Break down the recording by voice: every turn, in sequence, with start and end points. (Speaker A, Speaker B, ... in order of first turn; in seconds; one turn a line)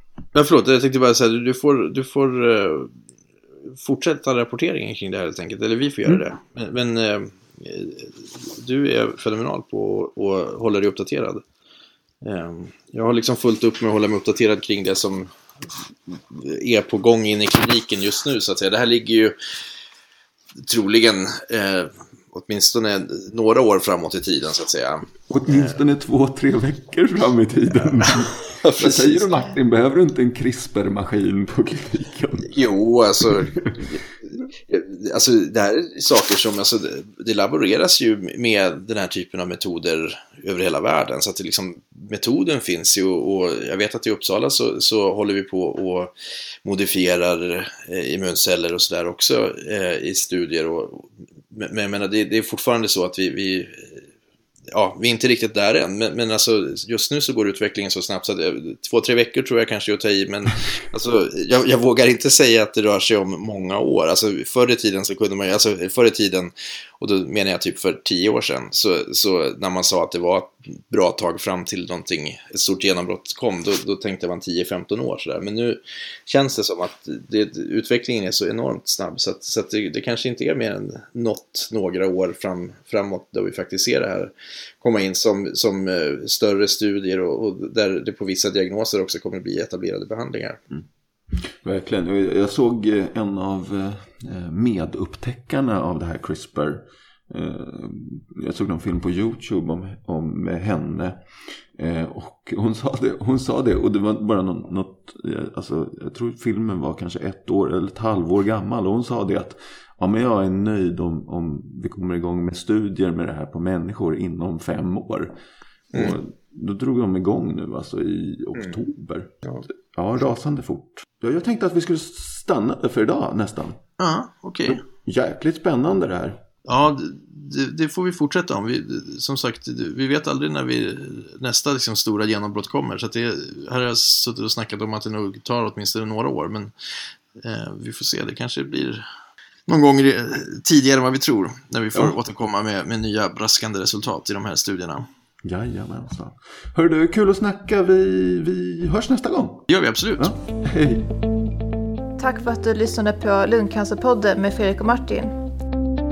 Speaker A: 0.3-3.0
Speaker A: 3.6-11.4
Speaker A: 12.2-15.3
Speaker A: 16.1-19.4
Speaker A: 20.6-25.8
Speaker B: 25.3-32.5
Speaker A: 27.9-29.4
Speaker A: 32.4-46.1
Speaker B: 33.3-33.8
Speaker A: 46.6-54.1
Speaker A: 54.7-90.6
Speaker B: 91.6-101.2
Speaker B: 101.8-115.3
Speaker B: 115.9-119.3
Speaker B: 119.9-123.8
Speaker A: 124.0-124.8
Speaker B: 124.7-126.4
Speaker A: 126.7-136.7
Speaker A: 137.4-139.1
Speaker A: 139.7-145.1
Speaker B: 145.4-151.1
Speaker A: 149.7-150.3
Speaker C: 152.2-155.3